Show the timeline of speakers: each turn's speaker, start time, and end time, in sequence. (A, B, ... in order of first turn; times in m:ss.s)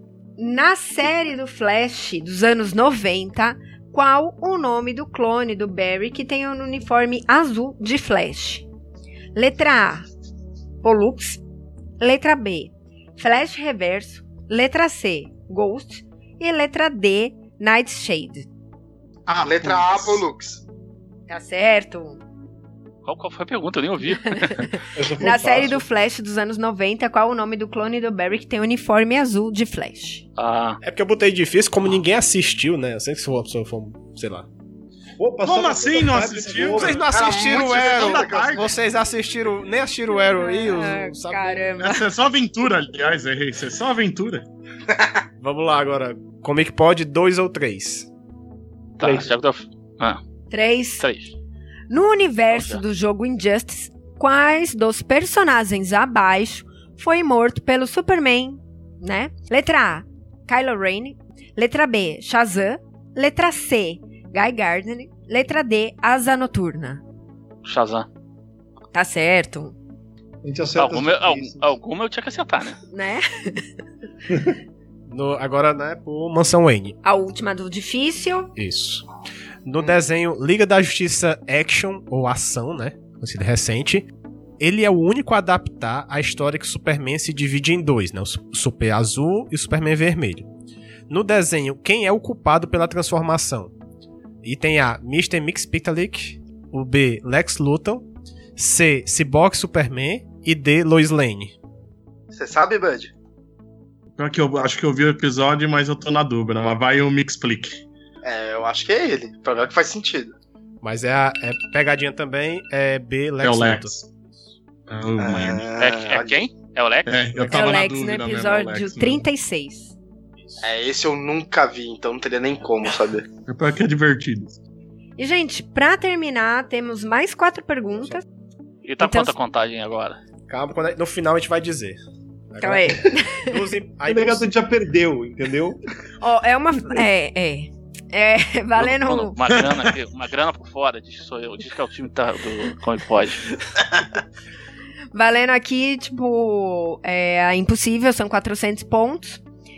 0:00.4-0:08.6 A
0:09.3-0:10.1 A
0:10.8-0:11.4 A
0:12.0-0:18.5 A
0:19.3-0:20.2 B
0:19.4-0:20.6 C
0:21.3-0:22.2 A
0:23.0-0:24.7 D
0:24.1-0:30.2 A
0:24.9-0:25.8 E
0:30.4-0:30.8 D
0:30.8-0:34.5 F
0:35.2-0:37.1 E
0:35.4-0:38.7 B
0:36.6-0:41.6 F
0:37.1-0:38.7 C
0:40.2-0:42.0 A
0:41.8-0:44.5 B
0:44.9-0:45.2 C
0:45.4-0:48.1 F
0:49.0-0:50.2 D
0:50.5-0:51.0 A
0:51.0-0:51.4 D
0:51.9-1:07.0 A
0:52.5-0:52.8 D
1:07.6-1:08.1 D
1:08.9-1:09.7 A
1:10.4-1:11.7 E
1:10.8-1:12.8 D
1:12.9-1:13.6 A
1:15.1-1:17.0 F
1:17.0-1:18.5 A
1:18.6-1:19.0 F
1:19.6-1:24.1 F
1:24.6-1:30.5 F
1:31.1-1:33.7 F
1:34.4-1:41.5 F
1:42.3-1:43.1 C
1:44.2-1:47.8 B
1:48.2-1:50.3 C
1:50.8-1:54.0 F
1:53.4-1:54.1 B
1:54.9-1:55.7 B
1:55.2-1:56.4 C
1:55.8-1:57.1 D
1:57.0-1:59.2 B
1:57.3-1:57.7 F
1:57.4-1:59.9 A
2:00.4-2:00.7 F
2:00.6-2:03.3 C
2:03.5-2:04.6 B
2:05.2-2:08.2 A
2:08.8-2:10.2 D
2:09.0-2:09.3 A
2:10.5-2:12.0 F
2:12.5-2:14.5 F
2:12.6-2:13.5 A
2:14.0-2:15.8 E
2:16.2-2:19.4 A
2:18.8-2:23.5 D
2:19.6-2:19.8 B
2:25.1-2:29.4 A